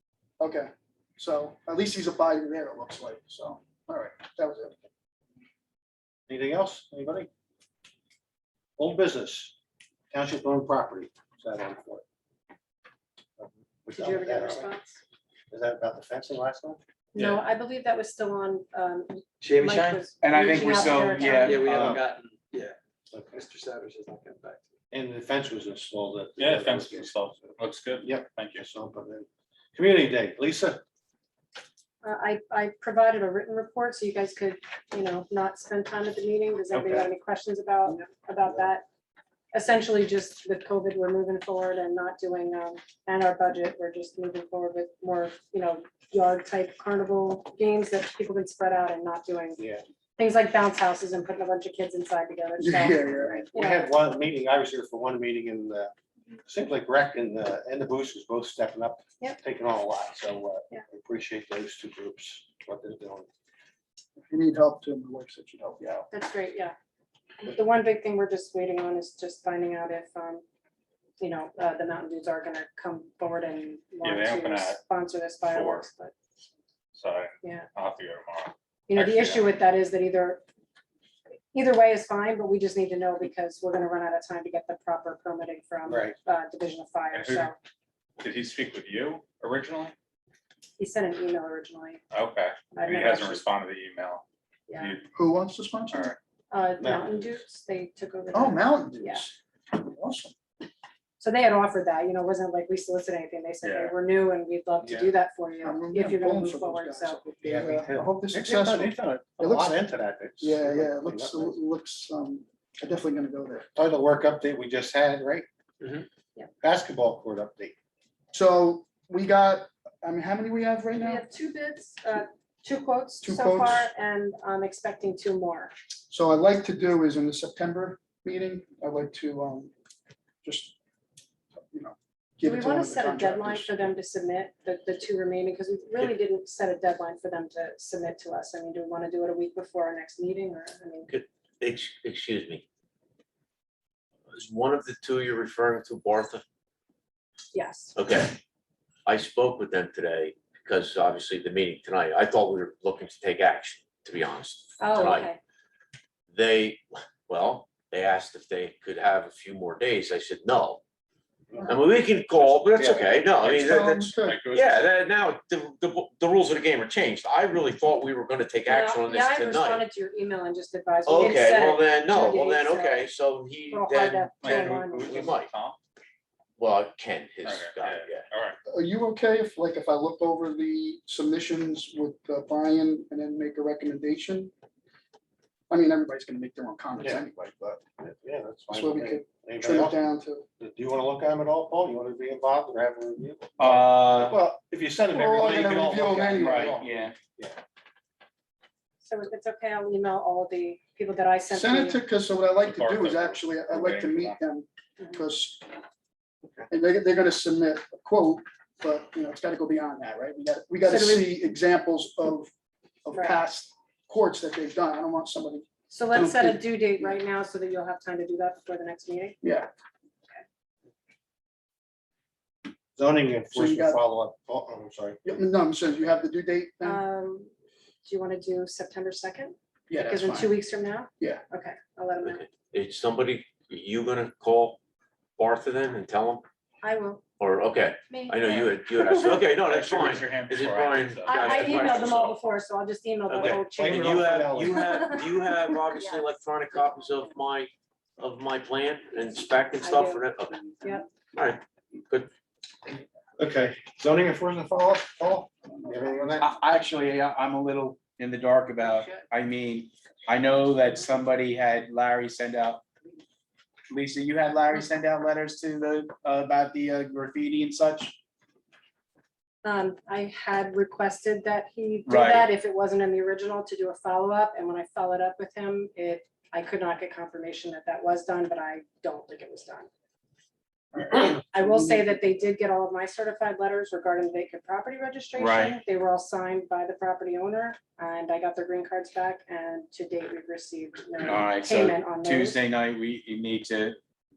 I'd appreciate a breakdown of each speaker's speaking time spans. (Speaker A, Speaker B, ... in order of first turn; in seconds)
Speaker A: 0.4-4.7, 52.6-53.4, 64.3-66.1, 95.1-96.1, 98.3-100.3, 105.6-109.8, 110.4-113.7, 118.3-121.2, 123.2-123.9, 126.1-129.7, 130.4-130.8, 131.7-133.8, 163.4-164.4, 178.7-184.5, 185.7-187.8, 188.7-190.4, 195.1-196.8, 201.5-205.7, 206.7-212.5, 213.0-217.2, 219.4-219.7, 223.5-224.0, 225.2-227.0, 229.9-230.5, 281.0-282.0
Speaker B: 6.3-7.3, 8.8-9.5, 10.1-12.0, 13.4-14.7, 15.5-16.8, 21.6-22.0, 23.1-23.4, 24.9-27.2, 28.0-30.8, 36.7-37.1, 38.4-38.7, 49.6-49.8, 53.4-55.9, 56.4-63.3, 85.8-86.2, 96.8-97.4, 104.8-105.1, 107.4-111.5, 113.7-116.0, 116.6-117.7, 188.0-190.0, 190.6-197.6, 222.9-225.2, 243.4-244.9, 252.9-256.5
Speaker C: 13.9-15.0, 17.1-21.6, 32.0-38.8, 39.5-49.6, 50.2-53.9, 66.1-66.7, 67.4-70.4, 71.2-76.1, 77.4-77.7, 78.9-80.4, 81.5-87.5, 90.8-92.0, 92.7-93.4, 94.7-95.0, 96.5-99.3, 101.2-107.3, 121.0-125.7, 132.4-141.1, 147.5-147.9, 154.8-155.4, 168.7-173.1, 173.7-175.2, 199.0-202.0, 210.8-211.3, 213.1-213.4, 215.9-219.4, 226.8-227.5, 228.0-232.4, 236.8-237.2, 238.1-239.5, 241.2-247.0, 249.1-251.1, 269.6-279.9, 281.2-292.6
Speaker D: 19.4-20.0, 20.7-22.8, 23.4-24.7
Speaker E: 20.2-22.0, 193.6-194.3, 196.4-197.1, 256.4-262.8, 263.9-268.2, 272.1-272.5, 285.4-285.8, 291.2-294.0
Speaker F: 26.4-28.6, 74.0-74.8, 75.4-75.9, 76.9-79.5, 87.1-87.5, 88.2-89.9, 92.1-95.0, 95.9-96.2, 103.6-103.9, 164.2-164.9, 174.4-175.8, 177.4-178.6, 202.6-204.4, 239.5-242.4
Speaker G: 141.1-142.6, 144.3-146.4, 147.9-148.4, 149.1-155.3, 156.3-160.8, 161.6-169.8, 171.0-175.5, 176.6-178.2, 232.2-234.8, 235.4-236.4, 237.4-242.3, 243.3-250.6, 251.3-252.3